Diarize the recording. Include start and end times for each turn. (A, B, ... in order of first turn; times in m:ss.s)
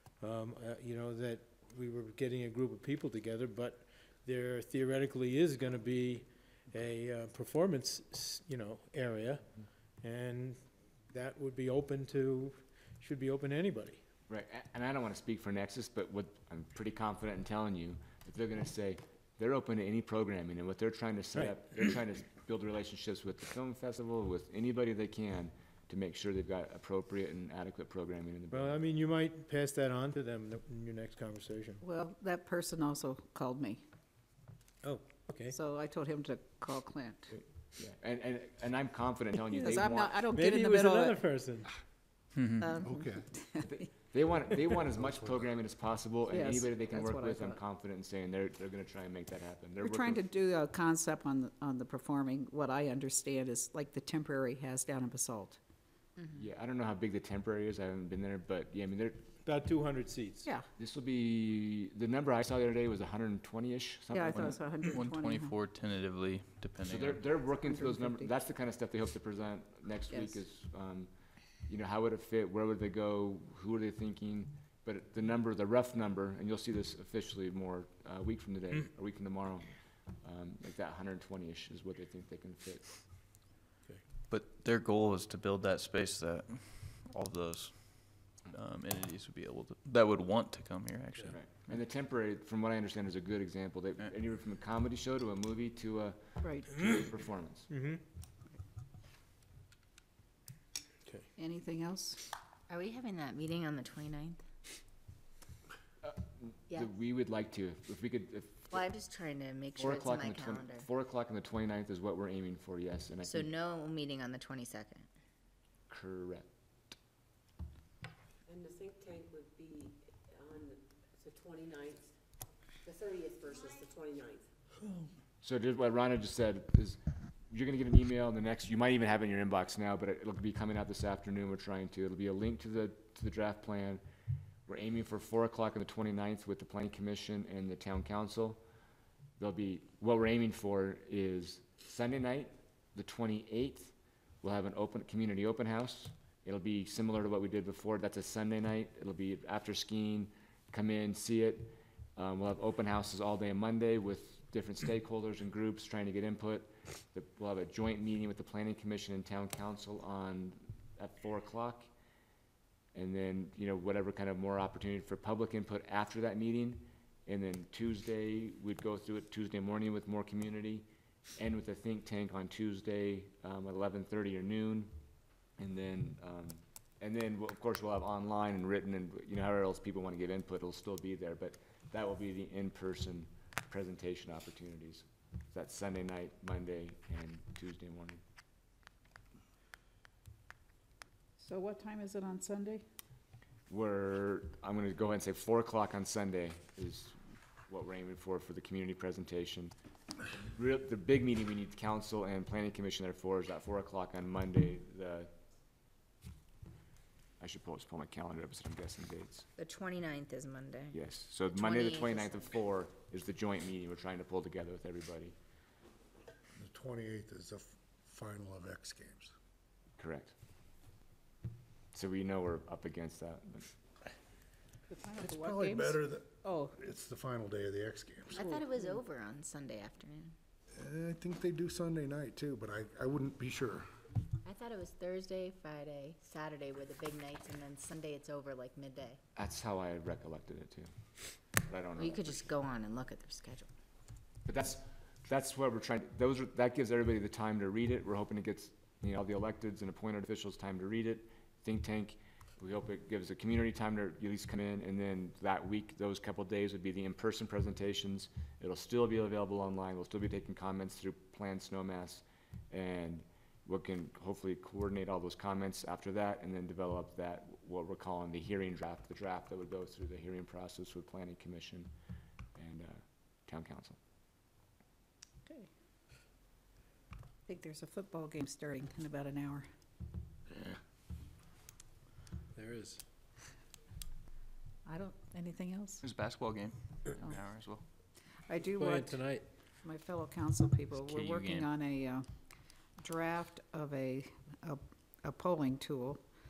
0:00.2-0:14.0 A
0:14.3-0:28.8 B
0:28.5-0:31.8 A
0:31.8-0:33.8 C
0:34.8-0:35.6 A
0:35.5-0:37.3 C
0:37.4-0:40.2 B
0:39.4-0:41.2 C
0:40.3-0:41.7 A
0:42.4-0:42.7 D
0:42.6-0:43.8 C
0:42.8-0:43.3 E
0:43.6-0:50.2 B
0:45.0-0:45.4 E
0:46.3-0:47.6 C
0:49.8-0:55.6 C
0:56.2-0:56.4 F
0:56.3-0:59.3 B
0:59.4-1:00.5 A
1:00.4-1:00.7 C
1:00.8-1:04.8 B
1:04.1-1:05.6 C
1:04.2-1:07.3 D
1:06.9-1:11.1 B
1:07.5-1:08.3 C
1:10.1-1:10.4 C
1:11.7-1:19.7 B
1:20.2-1:23.0 B
1:24.3-1:31.8 D
1:31.3-1:37.7 B
1:36.4-1:36.8 C
1:37.7-1:38.0 A
1:41.4-1:42.2 C
1:42.7-1:44.4 F
1:46.0-1:48.8 B
1:48.7-1:50.9 F
1:49.8-1:53.5 B
1:53.2-1:55.1 F
1:55.9-1:56.5 B
1:58.5-2:02.1 G
2:02.8-2:04.5 G
2:05.4-2:07.0 B
2:07.5-2:14.0 B
2:14.7-2:18.6 B
2:19.4-2:41.9 B
2:42.9-2:50.8 B
2:51.4-2:54.9 B
2:55.6-3:08.2 B
3:11.4-3:12.8 C
3:13.7-3:17.2 B
3:17.7-3:19.7 B
3:20.5-3:25.3 B
3:27.4-3:29.5 B
3:29.6-3:31.0 F
3:30.9-3:35.3 B
3:31.5-3:32.5 F
3:36.6-3:39.3 E
3:40.0-3:40.3 B
3:41.9-3:43.7 B
3:44.9-3:46.7 C
3:45.2-3:48.5 E
3:48.3-3:50.3 F
3:48.4-3:49.0 C
3:50.8-3:53.9 E
3:54.4-3:59.2 F
3:59.4-4:00.9 B
4:01.6-4:02.5 B
4:02.0-4:03.7 F
4:04.4-4:31.9 B
4:32.6-4:34.0 B
4:37.5-4:39.7 C
4:42.5-4:43.0 A
4:44.8-4:46.0 C
4:46.0-4:47.8 D
4:48.5-4:49.3 C
4:48.7-4:49.4 A
4:49.8-4:52.2 C
4:50.9-4:51.7 D
4:53.0-4:56.2 C